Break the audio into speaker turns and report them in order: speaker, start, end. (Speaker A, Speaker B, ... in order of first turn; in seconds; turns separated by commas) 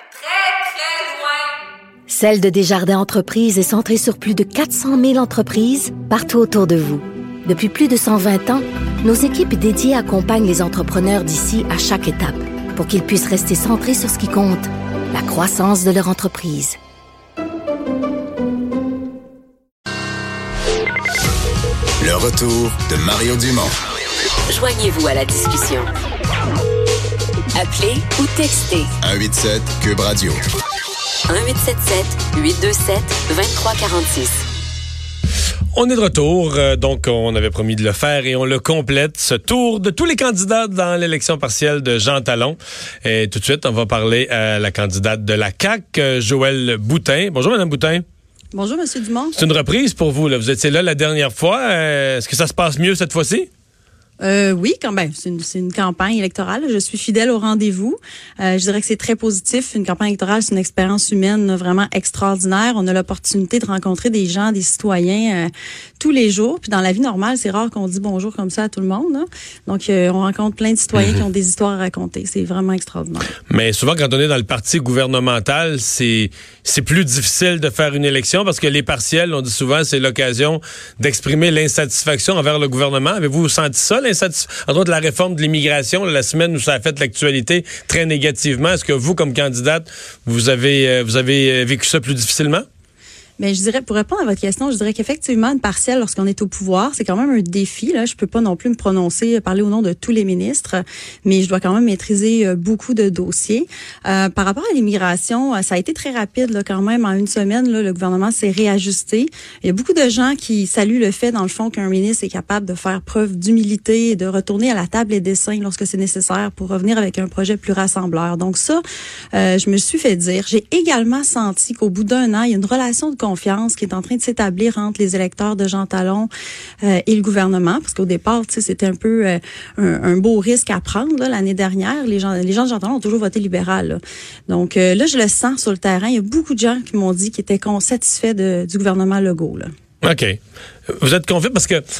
Speaker A: 2.1-16.8, Speaker B: 22.0-23.8, Speaker C: 24.5-25.6, Speaker C: 27.6-28.9, Speaker B: 29.0-30.4, Speaker C: 31.3-33.6, Speaker D: 35.7-48.0, Speaker E: 48.5-49.3, Speaker D: 49.4-53.5, Speaker E: 54.2-73.3, Speaker D: 73.5-92.6, Speaker E: 93.4-118.8, Speaker E: 119.3-126.3, Speaker E: 126.8-139.7, Speaker D: 140.0-140.4, Speaker D: 140.9-141.8